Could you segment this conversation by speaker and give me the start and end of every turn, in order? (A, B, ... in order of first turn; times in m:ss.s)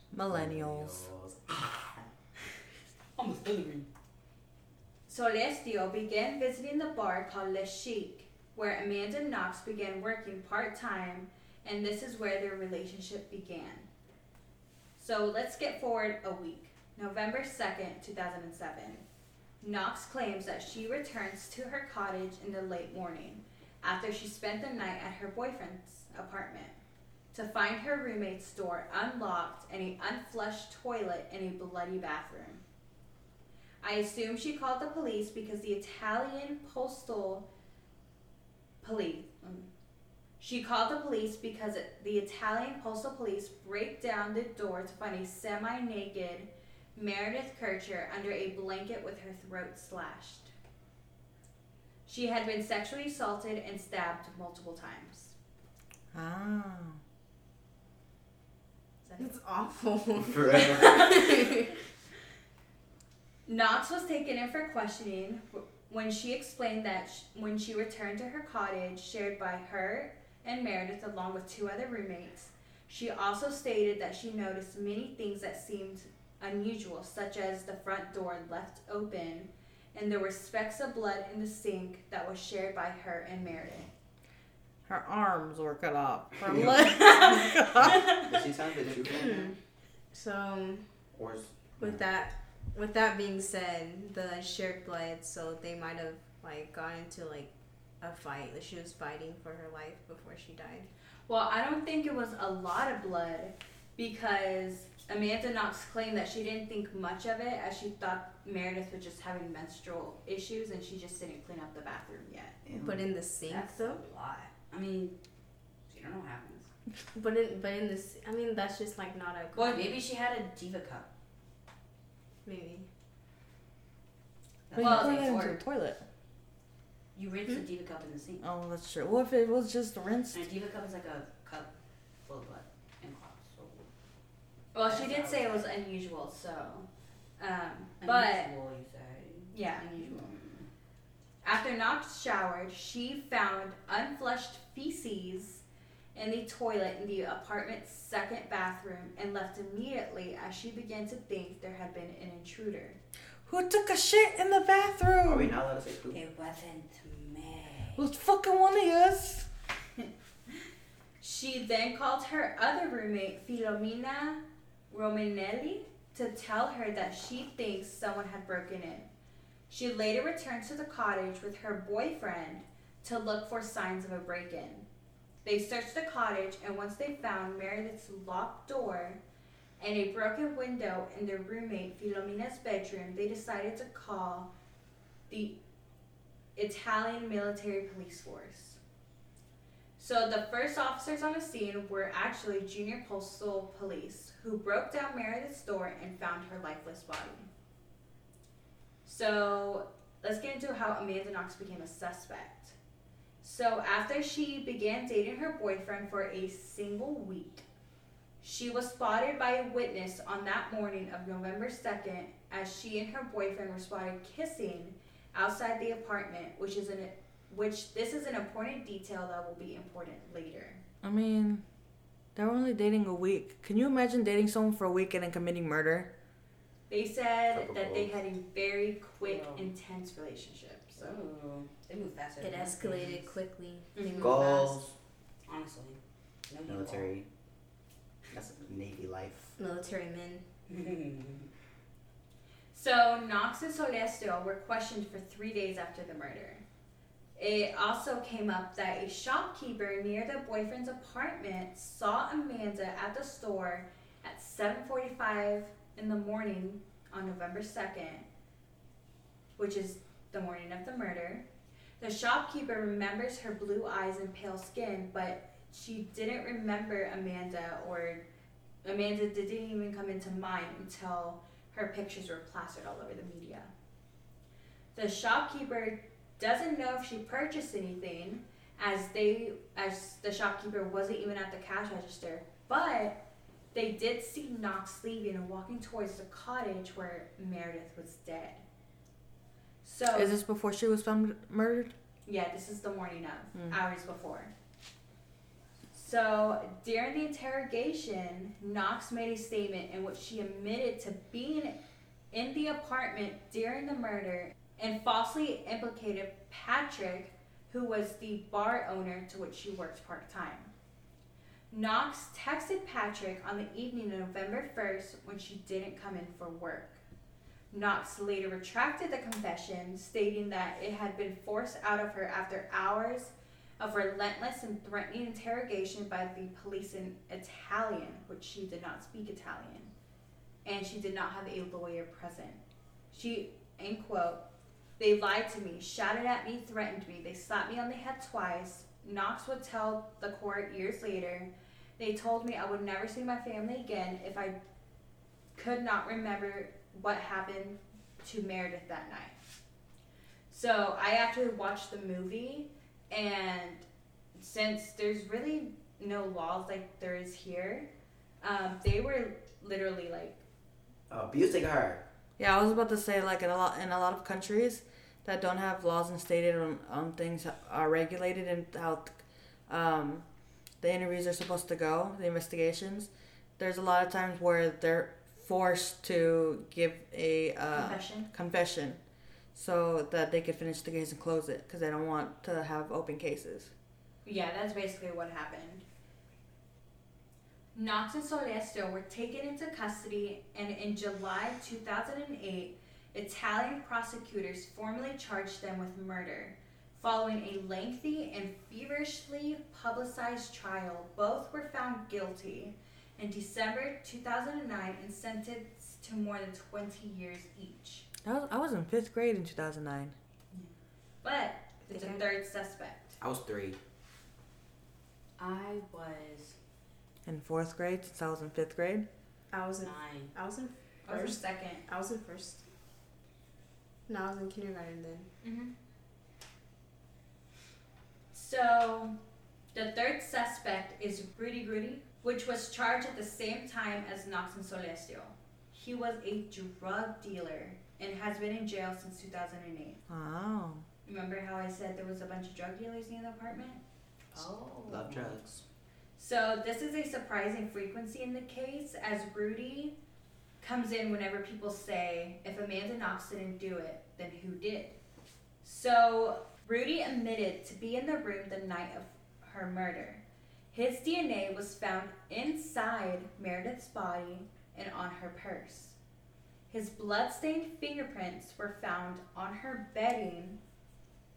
0:00.1-0:01.0 A
0:00.3-0:02.1 B
0:03.2-0:03.9 C
0:05.1-0:13.9 D
0:15.0-0:19.0 D
0:19.6-0:26.8 D
0:27.3-0:32.6 D
0:33.8-0:37.4 D
0:38.8-0:39.7 D
0:40.4-0:50.5 D
0:52.1-0:55.3 D
0:56.1-0:57.0 A
0:59.0-0:59.3 D
0:59.2-1:01.8 E
1:00.2-1:01.2 B
1:00.5-1:01.7 D
1:03.4-1:23.9 D
1:24.9-1:28.2 A
1:26.4-1:27.1 B
1:27.7-1:29.5 B
1:29.0-1:29.5 E
1:30.1-1:30.8 E
1:31.1-1:32.0 B
1:31.8-1:40.9 E
1:41.3-1:52.6 D
1:52.6-1:53.1 B
1:52.7-1:54.0 E
1:53.4-1:55.1 C
1:55.9-1:56.7 C
1:57.1-1:59.8 E
1:59.5-1:59.9 D
1:59.6-2:01.1 C
2:02.4-2:02.9 E
2:04.7-2:05.6 C
2:04.7-2:06.0 A
2:04.8-2:05.4 D
2:07.1-2:08.4 C
2:08.4-2:10.4 A
2:10.3-2:11.7 C
2:12.2-2:13.9 C
2:14.7-2:16.9 D
2:14.8-2:15.8 C
2:17.4-2:18.5 D
2:18.0-2:20.7 C
2:19.5-2:19.9 D
2:21.4-2:25.6 D
2:26.1-2:33.0 D
2:33.4-2:35.6 A
2:35.2-2:36.2 B
2:36.1-2:38.0 C
2:37.9-2:39.4 A
2:41.2-2:49.1 D
2:49.7-2:54.8 D
2:55.4-2:59.2 D
2:59.8-3:04.5 D
3:05.3-3:05.6 D
3:06.5-3:08.8 D
3:10.0-3:17.5 D
3:19.0-3:22.7 D
3:23.4-3:27.6 D
3:28.4-3:40.8 D
3:41.0-3:41.6 A
3:42.3-3:46.1 A
3:46.9-3:51.2 D
3:47.5-3:48.1 B
3:49.2-3:49.7 C
3:51.0-3:53.3 C
3:52.4-3:54.8 E
3:53.9-3:54.3 D
3:54.2-3:54.9 B
3:55.5-3:56.0 C
3:56.5-3:57.1 C
3:56.7-3:57.3 B
3:58.3-3:59.5 B
3:59.6-4:00.4 E
4:00.7-4:01.5 C
4:02.7-4:06.6 D
4:07.4-4:18.2 D
4:19.6-4:21.4 D
4:22.0-4:28.2 D
4:28.8-4:33.7 D
4:34.9-4:43.2 D
4:43.7-4:48.6 D
4:49.8-4:50.3 D
4:50.1-4:51.9 A
4:52.2-4:54.5 D
4:55.9-5:01.8 D
5:02.3-5:10.7 D
5:11.7-5:17.0 D
5:17.7-5:29.9 D
5:30.6-5:32.6 D
5:33.1-5:34.4 D
5:35.0-5:44.6 D
5:45.5-5:49.6 D
5:50.5-5:57.9 D
5:58.4-6:00.4 D
6:01.1-6:02.0 B
6:02.4-6:10.2 A
6:10.8-6:19.0 A
6:17.7-6:18.3 D
6:19.5-6:23.7 A
6:24.2-6:25.8 D
6:27.7-6:48.1 D
6:48.2-6:50.1 A
6:51.2-6:53.2 D
6:51.9-6:52.2 E
6:53.2-6:53.8 B
6:55.4-6:56.6 C
6:57.2-6:59.0 A
6:59.5-7:02.6 E
6:59.8-7:00.3 C
7:01.0-7:01.8 D
7:04.1-7:05.3 E
7:05.4-7:05.7 D
7:08.3-7:09.2 D
7:09.7-7:20.0 D
7:20.1-7:20.8 A
7:21.0-7:23.8 D
7:24.3-7:25.4 C
7:24.3-7:25.6 B
7:26.2-7:29.9 D
7:30.6-7:35.0 D
7:35.6-7:46.0 D
7:46.7-7:50.6 D